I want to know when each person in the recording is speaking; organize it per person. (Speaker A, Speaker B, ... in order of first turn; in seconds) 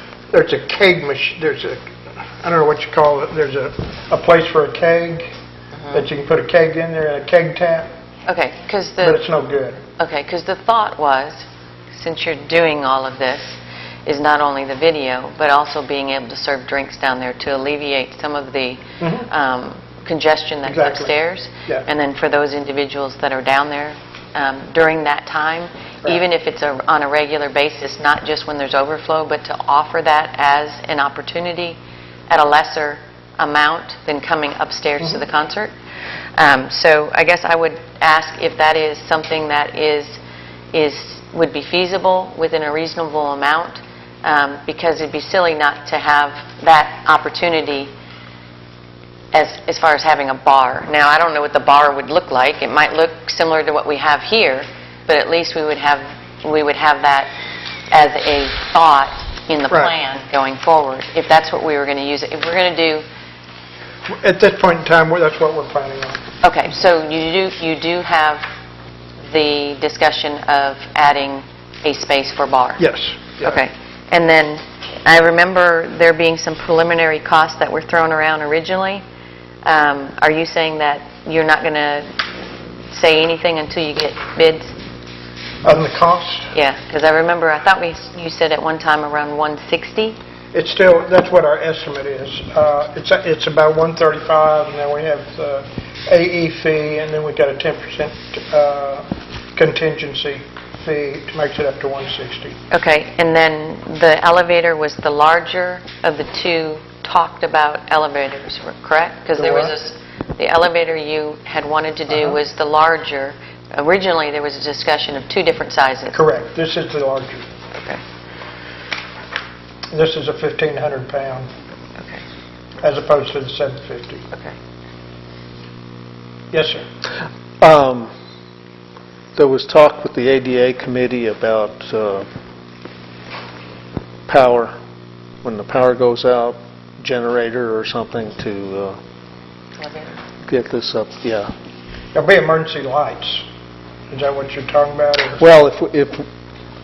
Speaker A: 0.3-5.3, 5.9-7.9, 9.0-9.8, 19.0-19.3, 20.6-21.1, 64.1-66.2, 72.8-73.6, 85.6-86.5, 90.5-102.6, 109.4-109.7, 116.1-117.5, 119.9-121.5, 122.8-124.2, 126.5-126.8, 142.1-143.5, 144.1-145.4
Speaker B: 5.8-6.0, 8.3-9.2, 10.0-31.8, 32.3-35.7, 36.4-40.2, 40.7-47.9, 49.3-57.3, 57.9-63.0, 66.4-68.5, 69.3-72.8, 73.4-79.0, 79.7-84.8, 86.5-90.2, 102.7-116.2, 117.7-118.0, 139.8-140.2
Speaker C: 127.6-128.1, 129.4-132.3, 134.3-134.8, 135.4-139.0, 140.5-141.5, 145.4-146.3